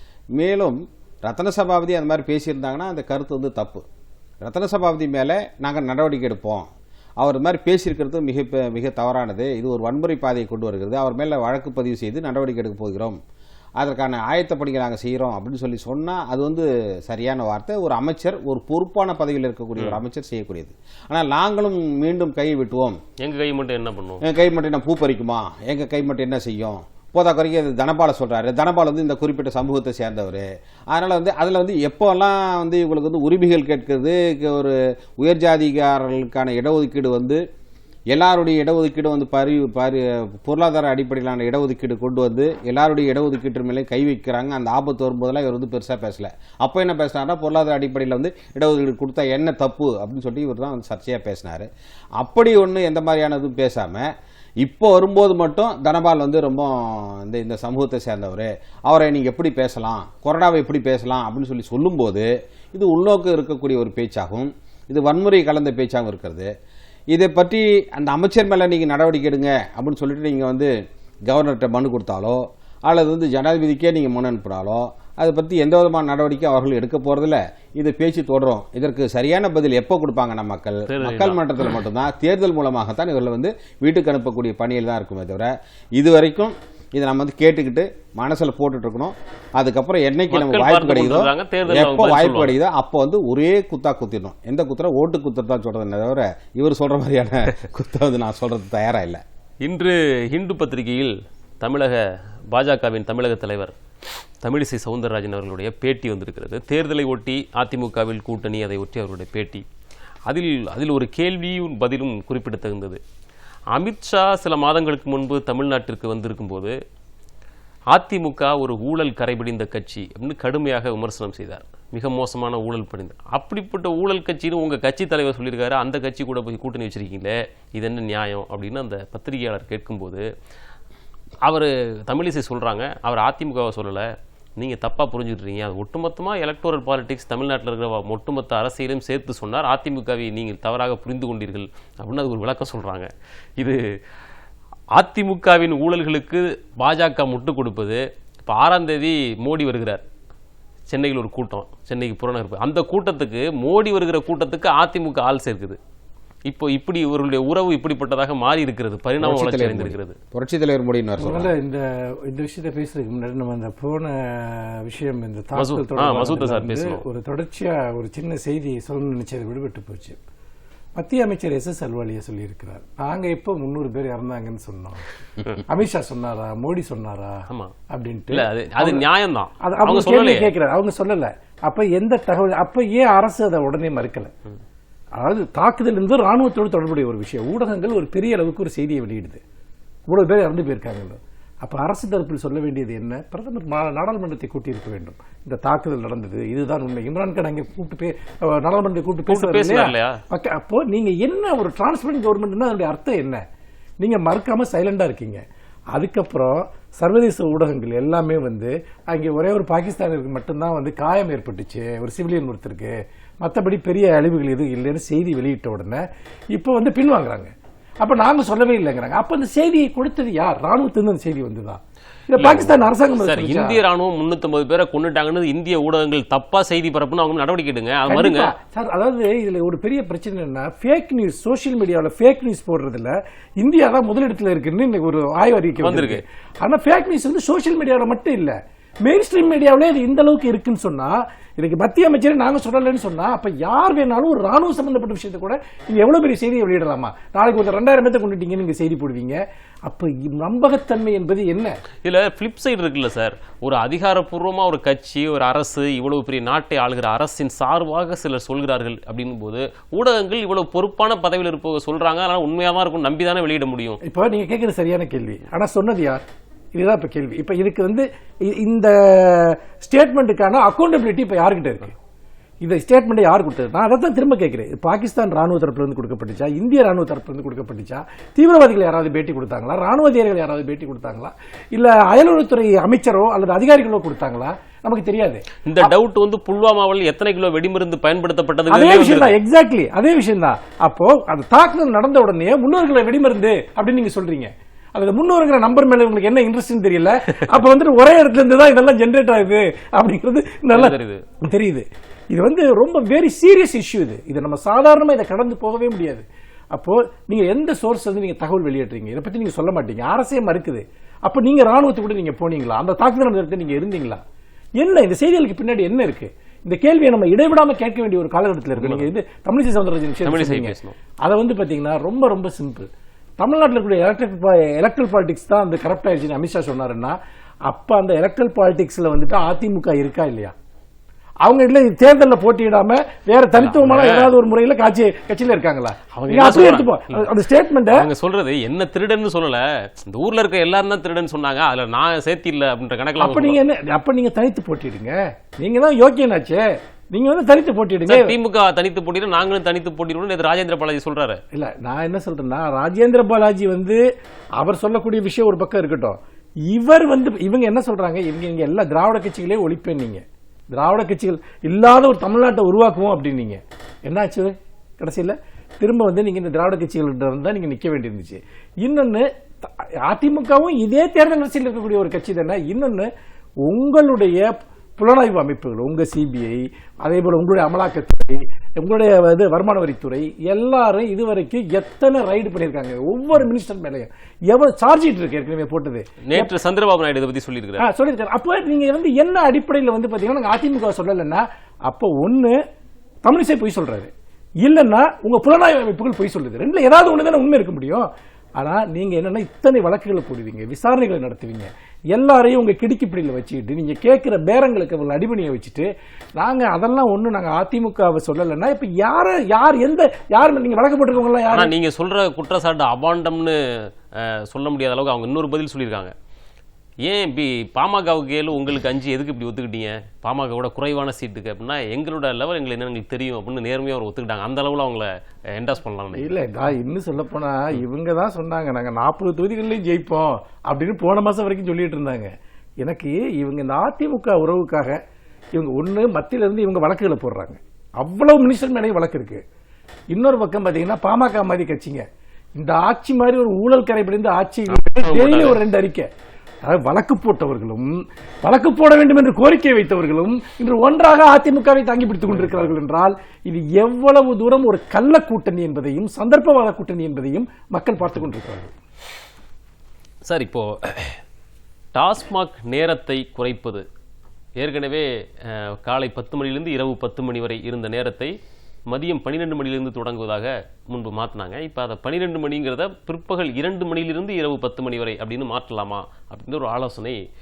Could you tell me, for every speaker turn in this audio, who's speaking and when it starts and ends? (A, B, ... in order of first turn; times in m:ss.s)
0:00.4-0:03.8 A
0:04.4-0:06.7 A
0:07.2-0:13.2 A
0:13.8-0:23.0 A
0:23.2-0:24.2 B
0:24.2-0:37.4 A
0:38.1-0:51.7 A
0:52.2-0:54.1 A
0:54.6-1:06.5 A
1:07.1-1:10.7 A
1:11.3-1:39.2 A
1:20.9-1:21.4 B
1:30.3-1:32.5 B
1:39.6-1:43.7 B
1:44.4-1:49.6 B
1:50.3-1:53.0 B
1:53.7-1:56.7 B
1:57.9-2:10.2 B
2:11.4-2:14.0 B
2:14.6-2:23.8 B
2:24.9-2:30.0 B
2:30.9-2:35.8 B
2:36.5-2:40.2 B
2:39.2-2:41.5 A
2:41.2-2:50.2 C
2:45.6-2:47.0 B
2:51.0-2:59.0 C
2:58.3-3:00.5 B
2:59.6-3:04.3 C
3:05.2-3:09.4 C
3:10.1-3:23.4 C
3:19.3-3:20.2 B
3:24.0-3:43.8 C
3:42.4-3:48.5 B
3:48.1-4:11.7 C
3:55.8-3:56.2 B
4:12.0-4:24.0 B
4:24.0-4:32.0 C
4:32.6-4:45.9 C
4:45.6-4:49.4 B
4:48.7-5:14.2 C
5:00.7-5:01.2 B
5:14.8-5:22.9 C
5:18.8-5:19.1 B
5:20.2-5:21.0 B
5:23.4-5:27.2 C
5:27.7-5:30.5 C
5:31.4-5:38.1 C
5:33.6-5:34.3 B
5:36.2-5:37.3 B
5:37.9-5:43.6 B
5:43.2-5:48.3 C
5:48.1-5:51.4 B
5:51.5-5:54.0 C
5:54.6-5:56.2 C
5:56.7-6:00.2 C
6:00.7-6:13.1 C
6:13.6-6:26.5 C
6:26.3-6:27.8 B
6:27.8-6:32.6 C
6:33.2-6:34.1 C
6:34.6-6:51.7 C
6:51.5-6:56.1 B
6:57.0-7:06.3 B
7:06.1-7:15.0 C
7:15.5-7:19.4 C
7:20.1-7:22.0 C
7:22.6-7:26.1 C
7:24.7-7:25.6 B
7:26.6-7:38.7 C
7:40.2-7:41.2 B
7:41.9-7:43.8 B
7:44.6-7:48.3 B
7:48.9-7:57.2 B